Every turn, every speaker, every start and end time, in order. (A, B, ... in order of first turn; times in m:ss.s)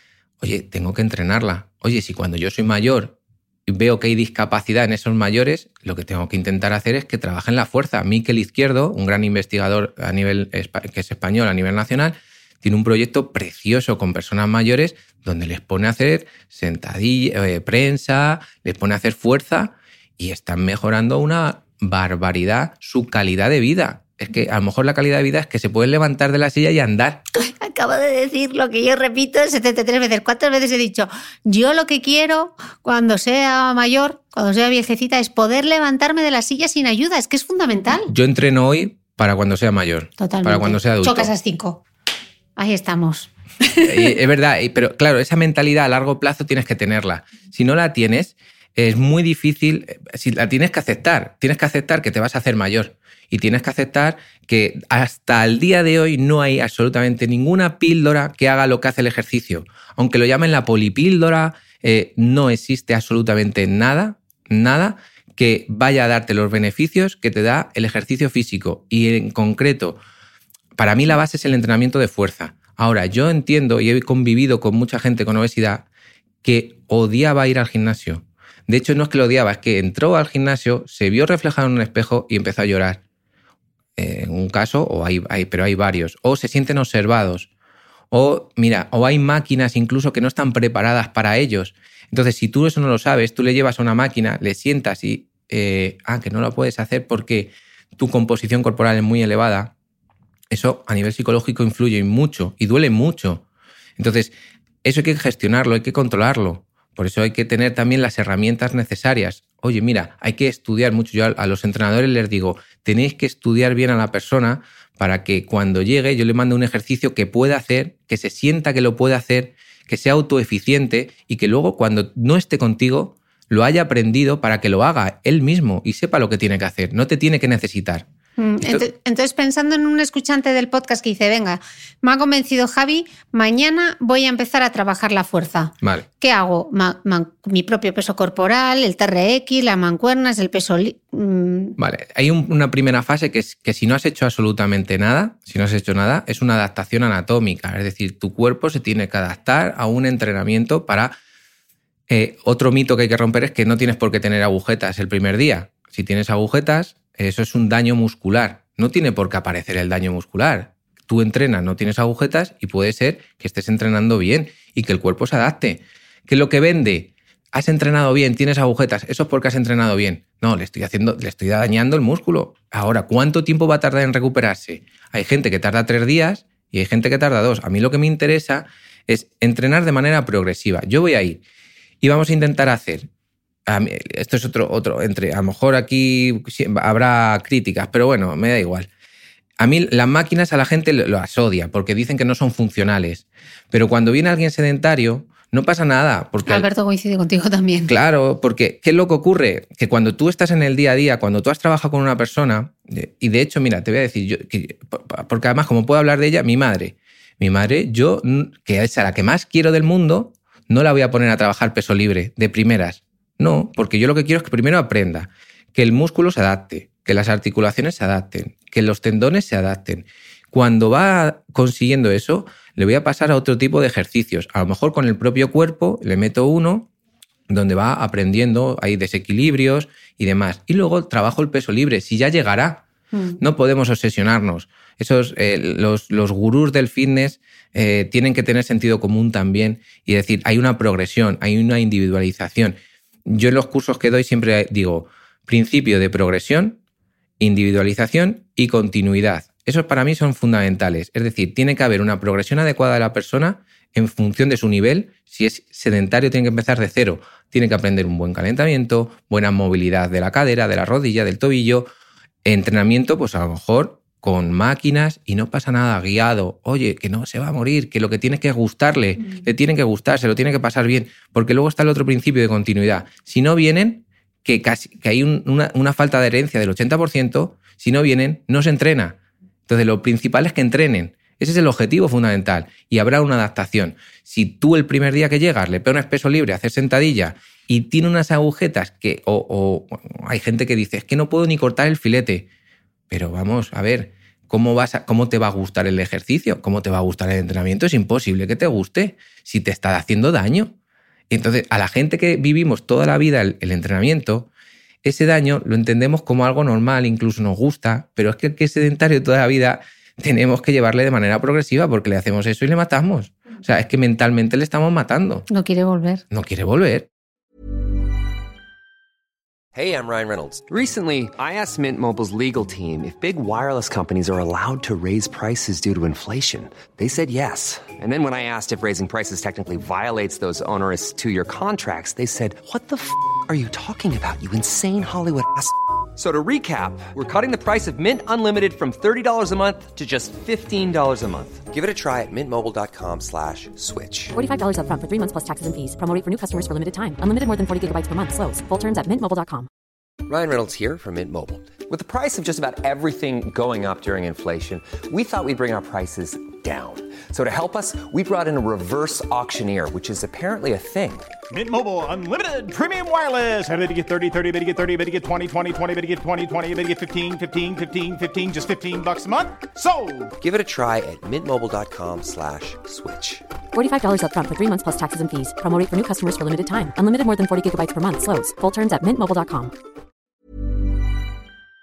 0:00.4-0:27.2 A
0:27.4-0:38.1 B
0:38.1-0:41.3 A
0:40.2-0:41.8 B
0:42.6-0:44.1 B
0:43.8-1:10.0 A
1:10.8-1:15.9 A
1:16.4-1:23.0 A
1:24.0-1:27.5 A
1:28.1-1:39.7 A
1:40.5-1:43.4 A
1:44.0-1:44.3 A
1:44.8-2:08.1 A
2:08.4-2:21.8 B
2:21.8-2:31.2 A
2:32.1-3:01.4 A
3:02.0-3:03.1 A
3:03.7-3:08.9 A
3:09.6-3:16.7 A
3:16.5-3:18.0 B
3:17.9-3:46.9 A
3:47.5-3:52.8 A
3:53.1-3:53.4 B
3:53.4-4:06.8 A
4:07.4-4:21.9 A
4:22.4-4:39.2 A
4:39.7-4:52.5 A
4:53.1-5:00.7 A
5:01.3-5:04.5 A
5:05.0-5:15.5 A
5:15.5-5:16.2 B
5:16.3-5:17.1 A
5:19.7-5:44.4 C
5:44.3-5:49.7 D
5:50.3-6:01.3 C
6:01.5-6:10.3 E
6:10.4-6:13.4 C
6:13.7-6:19.7 D